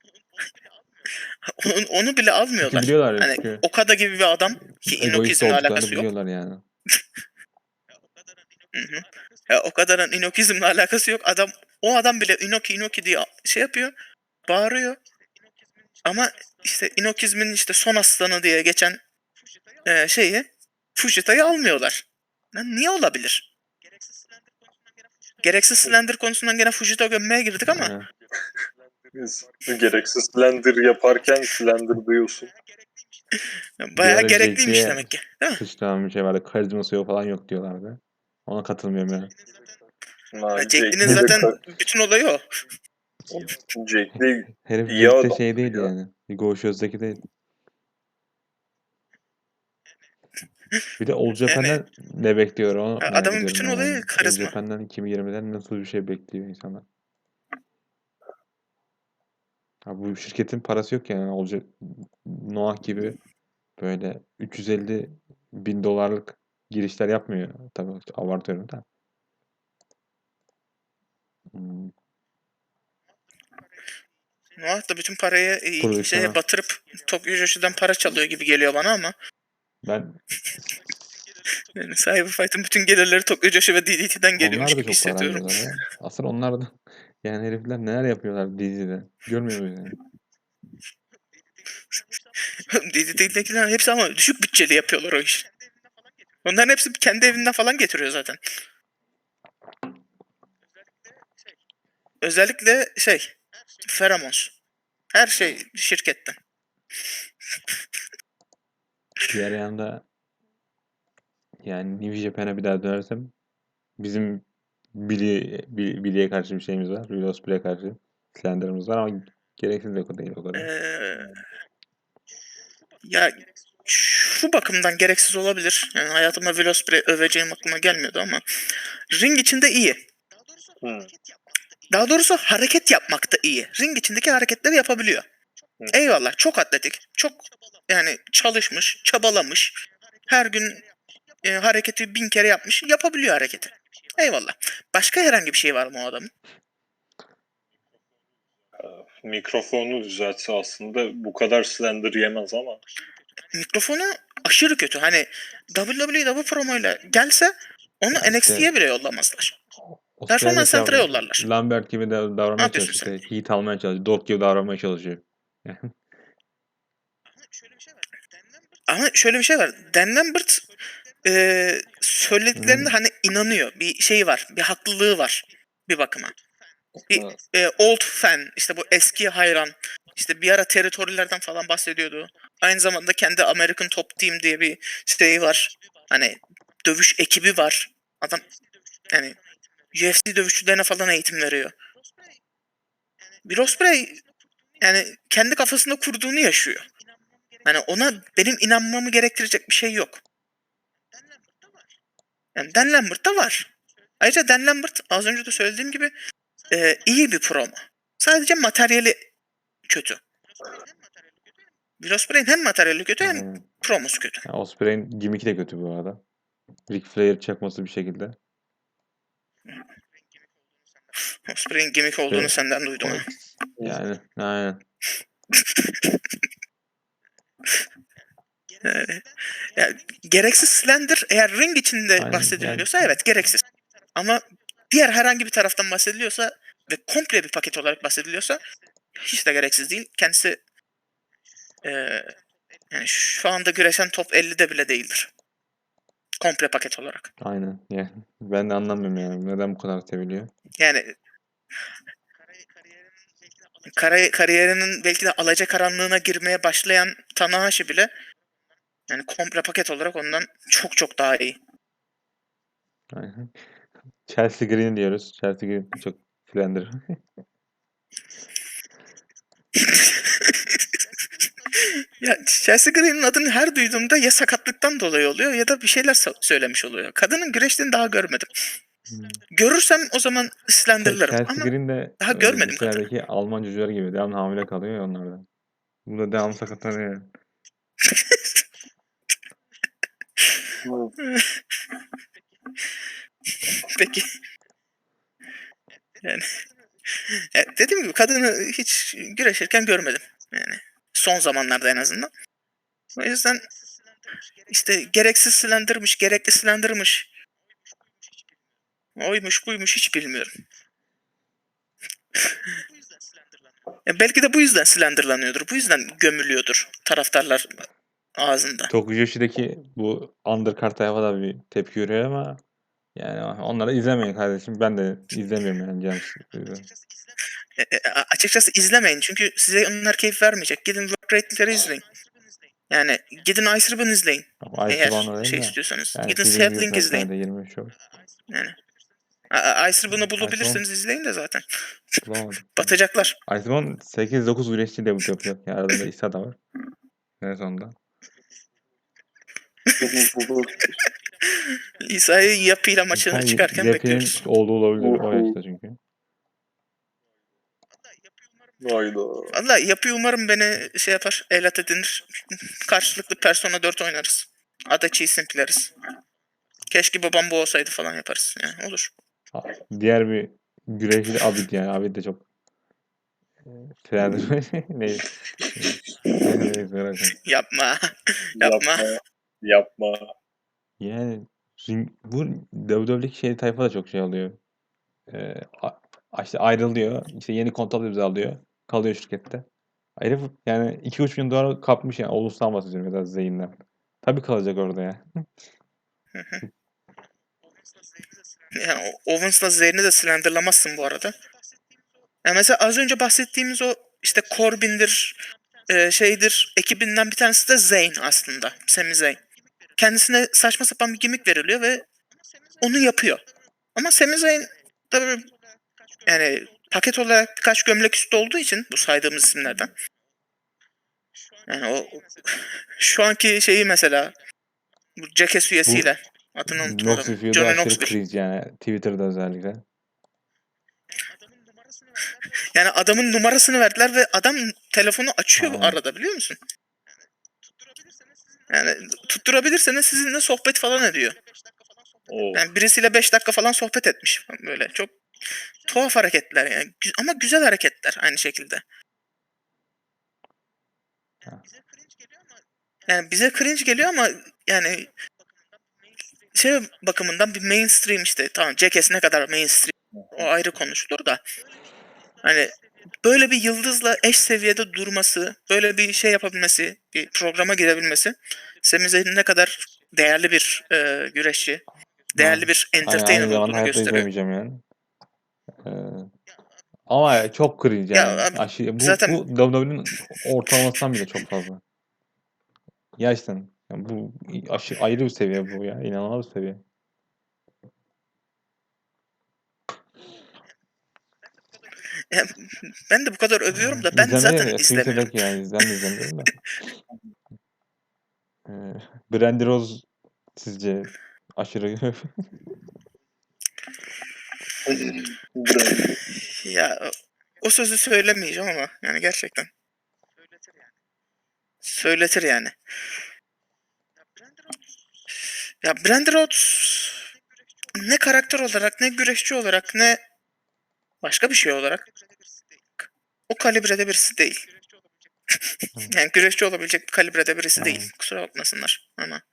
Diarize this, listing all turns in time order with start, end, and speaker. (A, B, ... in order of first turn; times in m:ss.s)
0:01.4-0:06.1 A
0:02.6-0:03.6 B
0:04.8-0:06.6 B
0:08.7-0:13.9 A
0:14.5-0:15.0 A
0:16.0-0:19.0 A
0:19.8-0:23.5 A
0:25.4-0:27.9 A
0:27.7-0:28.1 B
0:29.1-0:32.5 C
0:33.3-0:35.6 A
0:34.0-0:39.3 B
0:40.3-0:41.6 C
0:40.6-0:42.4 A
0:41.0-0:41.5 B
0:43.7-0:45.9 C
0:44.6-0:47.2 B
0:51.0-0:56.8 B
0:51.5-0:51.8 A
0:53.0-0:54.5 A
0:59.8-1:03.2 B
1:03.8-1:08.8 B
1:11.5-1:11.9 B
1:14.6-1:19.1 A
1:15.8-1:16.4 B
1:19.8-1:20.2 B
1:21.7-1:25.6 A
1:24.4-1:30.0 B
1:32.5-1:35.5 A
1:36.4-1:38.4 A
1:42.2-1:43.3 A
1:43.8-1:44.5 A
1:45.1-1:46.4 A
1:49.3-1:50.0 B
1:51.6-1:53.3 B
1:54.0-2:00.7 B
2:00.5-2:01.4 A
2:03.0-2:10.0 A
2:10.8-2:11.1 C
2:11.9-2:15.2 A
2:15.8-2:16.2 C
2:15.9-2:20.8 A
2:21.4-2:26.3 A
2:28.8-2:32.8 C
2:33.5-2:39.5 A
2:38.1-2:38.7 B
2:39.9-2:46.0 B
2:40.3-2:41.4 A
2:42.6-2:43.1 A
2:48.9-2:50.6 A
2:51.2-2:56.3 A
2:52.6-2:52.9 B
2:57.0-2:57.3 C
2:57.1-3:08.4 A
3:09.1-3:09.4 A
3:09.9-3:11.7 A
3:13.4-3:14.2 A
3:14.8-3:16.9 A
3:17.6-3:20.2 A
3:22.5-3:26.1 A
3:26.7-3:29.2 A
3:29.9-3:30.2 A
3:32.0-3:34.4 A
3:33.2-3:33.6 B
3:34.4-3:36.2 B
3:36.9-3:38.4 B
3:41.4-3:43.3 A
3:42.3-3:43.2 B
3:43.8-3:44.8 B
3:45.5-3:46.2 A
3:48.8-3:53.6 A
3:52.2-3:53.0 B
3:54.2-3:58.6 A
3:59.2-4:00.6 A
4:01.8-4:02.3 A
4:02.9-4:05.3 A
4:06.4-4:07.3 A
4:07.4-4:10.5 B
4:10.8-4:11.1 A
4:13.9-4:18.1 A
4:19.1-4:21.6 A
4:23.1-4:23.7 B
4:24.2-4:27.2 B
4:29.8-4:31.0 A
4:31.7-4:38.6 A
4:39.1-4:39.4 B
4:39.5-4:43.0 A
4:41.0-4:45.4 B
4:46.0-4:47.3 B
4:48.0-4:48.4 A
4:50.8-4:51.1 C
4:51.2-4:51.6 A
4:53.6-4:54.3 A
4:56.2-4:56.6 A
4:57.1-5:02.3 A
5:03.2-5:03.6 A
5:04.7-5:07.3 A
5:09.2-5:10.6 A
5:12.4-5:12.7 A
5:14.0-5:17.8 A
5:18.4-5:18.9 A
5:18.9-5:22.6 B
5:23.2-5:26.9 B
5:27.8-5:32.0 A
5:32.9-5:37.3 A
5:34.6-5:37.9 B
5:38.5-5:38.8 A
5:39.5-5:41.6 A
5:40.1-5:40.8 B
5:42.2-5:46.6 B
5:42.8-5:43.4 A
5:47.4-5:47.9 B
5:50.0-5:50.9 C
5:51.4-5:54.4 A
5:53.1-5:56.0 B
5:55.0-5:55.6 C
5:58.8-5:59.6 C
5:59.5-6:05.9 A
6:06.9-6:09.1 A
6:09.5-6:12.4 B
6:13.6-6:17.4 B
6:17.3-6:19.0 A
6:18.6-6:20.3 C
6:21.0-6:24.6 B
6:25.3-6:29.6 B
6:30.2-6:35.5 B
6:36.3-6:36.6 A
6:38.7-6:41.4 A
6:42.4-6:49.4 A
6:50.0-6:52.0 A
6:52.8-6:53.4 A
6:53.9-6:55.5 A
6:56.2-6:59.9 A
7:01.7-7:04.3 A
7:05.2-7:08.1 A
7:06.7-7:09.8 B
7:12.6-7:16.6 A
7:15.6-7:16.0 B
7:18.7-7:21.4 A
7:22.3-7:22.6 C
7:22.5-7:25.1 A
7:25.8-7:28.8 A
7:33.1-7:35.1 A
7:36.5-7:41.4 A
7:40.2-7:40.5 C
7:42.4-7:54.2 A
7:52.4-7:54.8 B
7:55.8-7:56.3 B
7:57.1-8:01.8 B
7:58.1-7:59.4 A
8:03.2-8:06.8 B
8:12.3-8:15.9 A
8:13.7-8:16.6 B
8:18.6-8:22.5 B
8:24.8-8:26.2 C
8:26.4-8:29.7 A
8:31.8-8:32.7 A
8:35.8-8:37.3 A
8:37.9-8:40.2 A
8:41.2-8:42.1 A
8:43.0-8:44.6 A
8:45.5-8:49.4 A
8:47.8-8:48.1 B